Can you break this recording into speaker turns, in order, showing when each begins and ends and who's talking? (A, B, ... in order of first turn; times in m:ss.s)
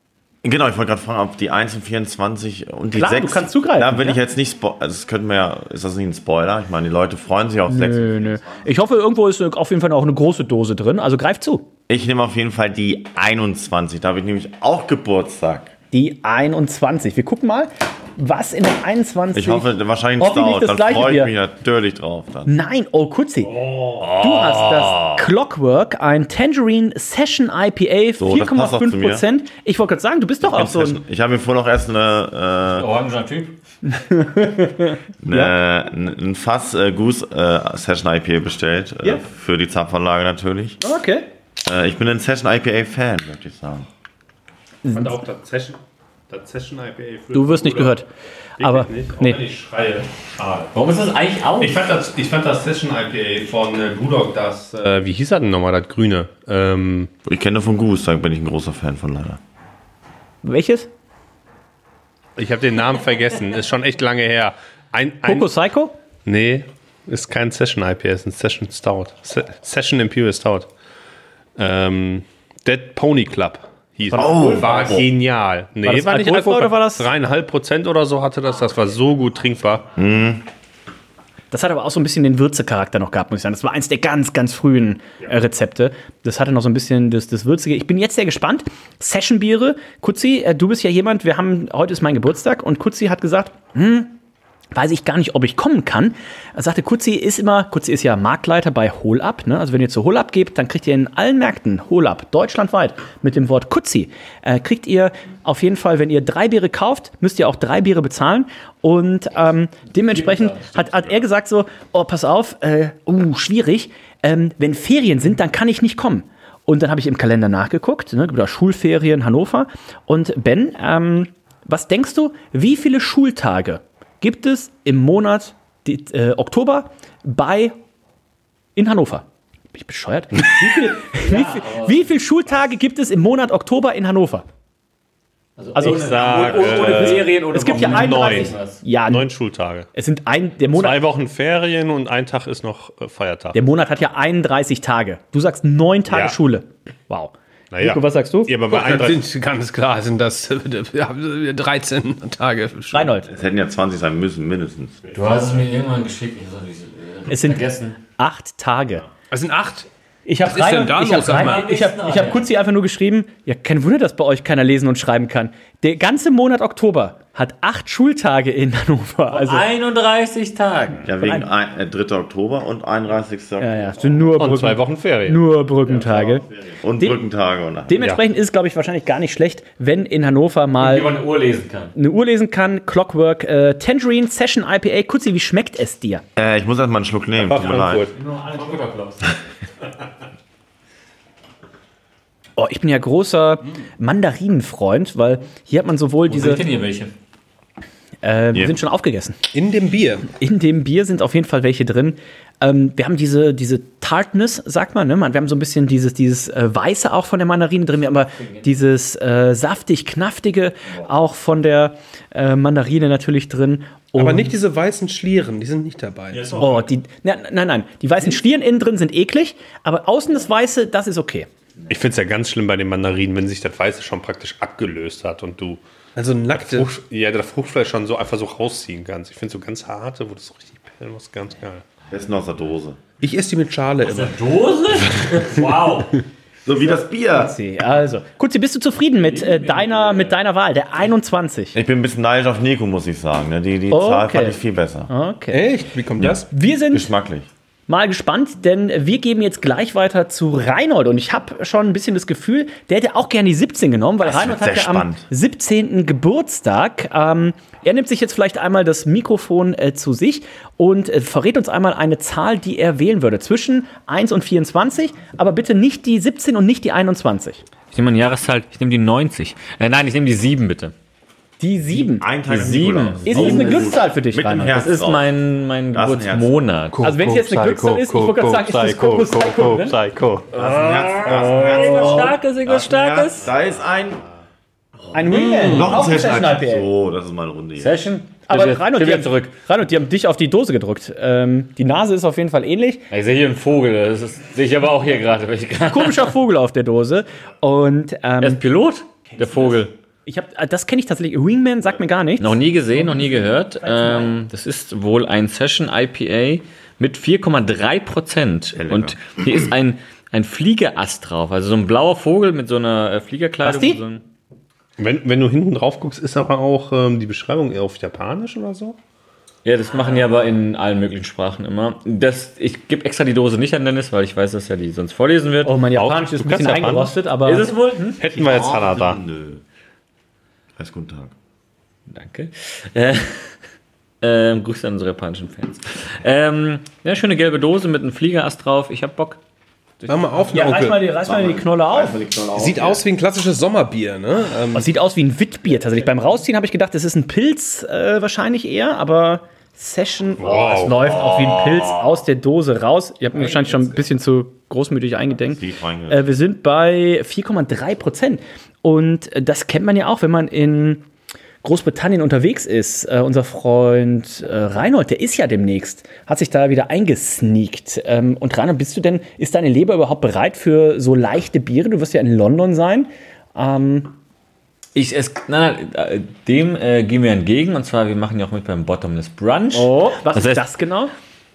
0:00.4-0:08.7 A
0:03.0-0:04.2 B
0:07.7-0:11.7 B
0:11.9-0:15.7 A
0:15.9-0:21.3 B
0:19.3-0:22.5 A
0:22.5-0:23.5 B
0:23.4-0:25.2 C
0:24.2-0:31.0 B
0:28.2-0:29.3 A
0:30.4-0:32.9 A
0:32.7-0:33.5 C
0:33.9-0:35.5 B
0:35.2-0:40.8 A
0:40.8-0:41.2 B
0:41.6-0:43.9 A
0:44.8-0:45.2 B
0:44.9-0:45.8 D
0:46.3-0:48.0 D
0:47.3-0:48.1 B
0:48.6-0:50.7 D
0:48.6-0:49.4 B
0:50.7-0:51.8 C
0:51.6-0:57.1 D
0:57.2-0:59.4 A
1:00.4-1:00.9 B
1:02.4-1:05.5 D
1:05.2-1:05.9 B
1:06.2-1:10.7 D
1:11.6-1:19.9 D
1:14.1-1:15.1 B
1:14.1-1:15.0 A
1:15.8-1:17.1 B
1:20.0-1:20.4 A
1:21.5-1:34.2 B
1:34.7-2:07.8 B
1:50.1-1:51.0 C
2:08.8-2:14.4 B
2:11.2-2:12.1 C
2:15.6-2:18.8 C
2:15.7-2:19.3 B
2:15.9-2:19.9 D
2:19.9-2:21.0 B
2:20.7-2:23.6 D
2:23.5-2:28.5 B
2:26.1-2:26.4 D
2:27.7-2:29.2 D
2:28.7-2:33.1 E
2:32.9-2:33.3 B
2:33.3-2:35.2 A
2:35.1-2:38.0 C
2:37.3-2:39.0 B
2:39.3-2:39.9 E
2:40.2-2:49.7 B
2:40.4-2:41.7 E
2:41.3-2:42.4 C
2:49.3-2:51.0 C
2:51.0-2:54.3 A
2:51.2-2:51.4 B
2:53.6-2:56.4 B
2:54.4-2:55.4 D
2:55.8-2:58.1 A
2:57.9-3:01.1 B
3:00.8-3:01.9 C
3:01.9-3:06.2 B
3:06.4-3:08.1 A
3:07.4-3:08.1 D
3:08.2-3:09.3 C
3:12.6-3:16.6 B
3:16.3-3:17.1 C
3:18.2-3:19.4 B
3:19.5-3:20.3 E
3:20.3-3:34.6 B
3:34.2-3:36.7 E
3:36.6-3:41.5 B
3:41.9-3:45.8 D
3:46.2-3:46.9 E
3:46.6-3:51.8 D
3:52.1-3:53.0 A
3:53.2-3:54.4 E
3:54.0-3:56.2 C
3:56.6-3:57.6 A
3:56.8-4:01.7 B
3:59.2-4:00.4 C
4:01.7-4:05.1 A
4:03.9-4:05.7 B
4:05.5-4:06.5 E
4:06.2-4:07.5 A
4:06.5-4:07.1 B
4:07.9-4:27.6 B
4:14.2-4:15.3 A
4:27.9-4:30.9 C
4:31.6-4:32.3 B
4:32.0-4:35.3 A
4:32.5-4:33.9 C
4:33.2-4:34.8 B
4:34.7-4:37.0 C
4:35.9-4:36.6 A
4:36.9-4:40.5 D
4:37.0-4:39.9 B
4:40.6-4:44.2 A
4:40.6-4:43.4 C
4:41.8-4:42.1 B
4:45.1-4:46.9 B
4:45.3-4:46.0 E
4:45.3-4:48.0 A
4:47.8-4:49.5 C
4:48.5-4:53.0 B
4:53.1-4:56.3 C
4:55.9-4:58.6 B
4:58.4-4:59.9 C
5:00.2-5:02.6 B
5:02.4-5:14.2 C
5:03.8-5:04.3 B
5:08.7-5:09.7 A
5:13.6-5:14.0 B
5:15.0-5:19.0 D
5:19.6-5:25.8 C
5:25.6-5:27.7 B
5:26.0-5:27.2 D
5:27.4-5:28.2 C
5:28.2-5:29.2 D
5:28.3-5:29.6 A
5:30.8-5:31.3 A
5:32.1-5:33.6 C
5:34.2-5:39.4 C
5:40.0-5:40.2 C
5:40.1-5:41.0 E
5:40.5-5:42.2 B
5:41.2-5:43.0 A
5:42.6-5:44.9 E
5:44.7-6:01.0 B
5:50.4-5:51.0 D
5:51.0-5:52.0 C
5:55.5-5:56.3 A
6:01.6-6:14.1 B
6:14.9-6:20.6 C
6:19.7-6:21.1 B